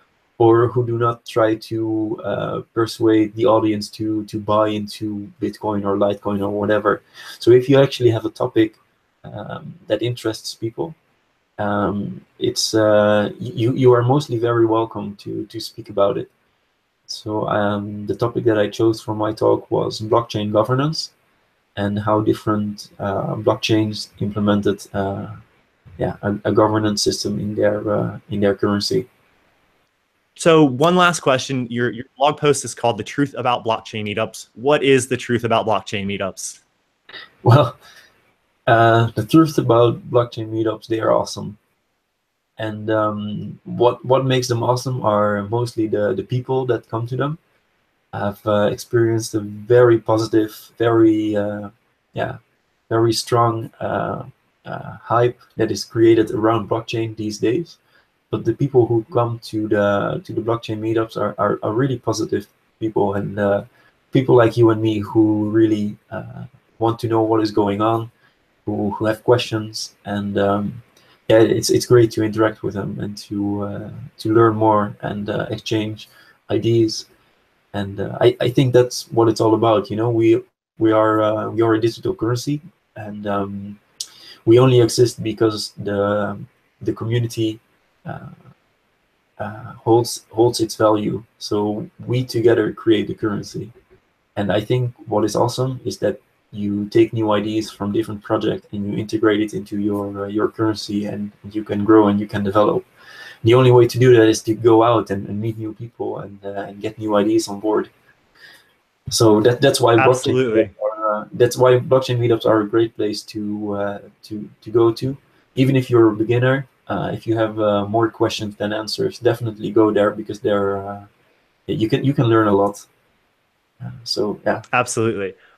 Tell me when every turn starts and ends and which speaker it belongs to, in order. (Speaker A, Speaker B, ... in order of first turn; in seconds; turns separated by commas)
Speaker A: 0.4-11.0, Speaker A: 11.6-16.3, Speaker A: 17.1-21.1, Speaker A: 21.8-25.4, Speaker A: 26.0-29.1, Speaker B: 30.4-36.6, Speaker A: 37.4-37.8, Speaker A: 38.7-41.6, Speaker A: 42.6-47.4, Speaker A: 48.1-57.8, Speaker A: 58.3-68.1, Speaker A: 68.6-77.1, Speaker A: 77.7-83.8, Speaker A: 84.5-88.4, Speaker A: 89.4-93.7, Speaker A: 94.4-102.9, Speaker A: 103.4-107.9, Speaker A: 109.1-121.1, Speaker B: 110.0-110.7, Speaker A: 121.7-122.9, Speaker A: 123.8-124.6, Speaker B: 124.7-125.4